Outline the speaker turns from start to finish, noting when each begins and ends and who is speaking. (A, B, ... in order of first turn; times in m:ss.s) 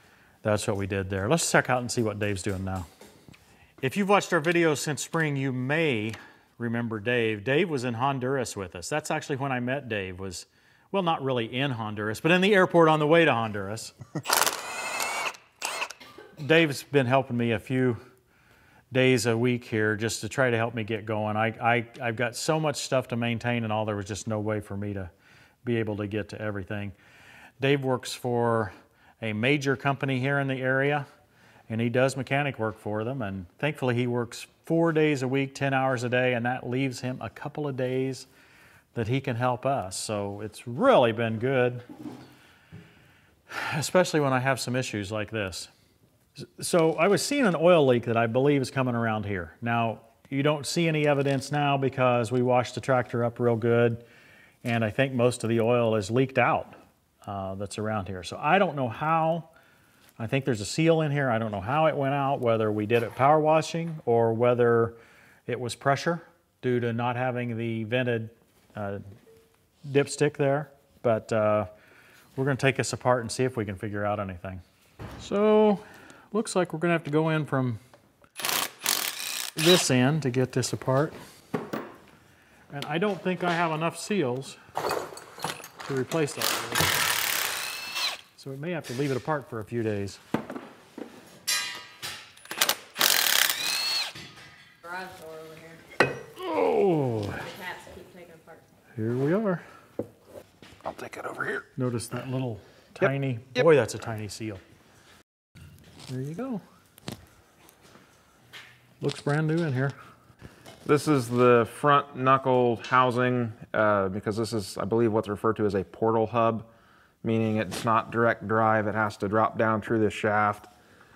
0:00.4-0:02.9 A
0:03.8-0:13.9 A
0:16.4-0:18.0 A
0:18.9-0:25.1 A
0:25.6-0:26.9 A
0:27.6-0:31.1 A
0:31.7-0:38.3 A
0:38.9-0:41.8 A
0:43.5-0:45.7 A
0:46.4-0:54.0 A
0:54.6-0:59.5 A
1:00.2-1:05.0 A
1:05.5-1:09.0 A
1:09.8-1:11.7 A
1:12.4-1:14.6 A
1:15.2-1:17.8 A
1:19.6-1:21.2 A
1:22.7-1:24.6 A
1:25.8-1:26.9 A
1:28.4-1:30.2 A
1:34.8-1:35.8 B
1:36.4-1:37.4 A
1:37.4-1:38.6 B
1:39.0-1:39.6 A
1:40.8-1:41.7 C
1:41.8-1:44.6 A
1:43.0-1:43.7 C
1:46.1-1:46.6 A
1:49.0-1:49.9 A
1:50.8-1:56.7 C
1:57.2-2:00.7 C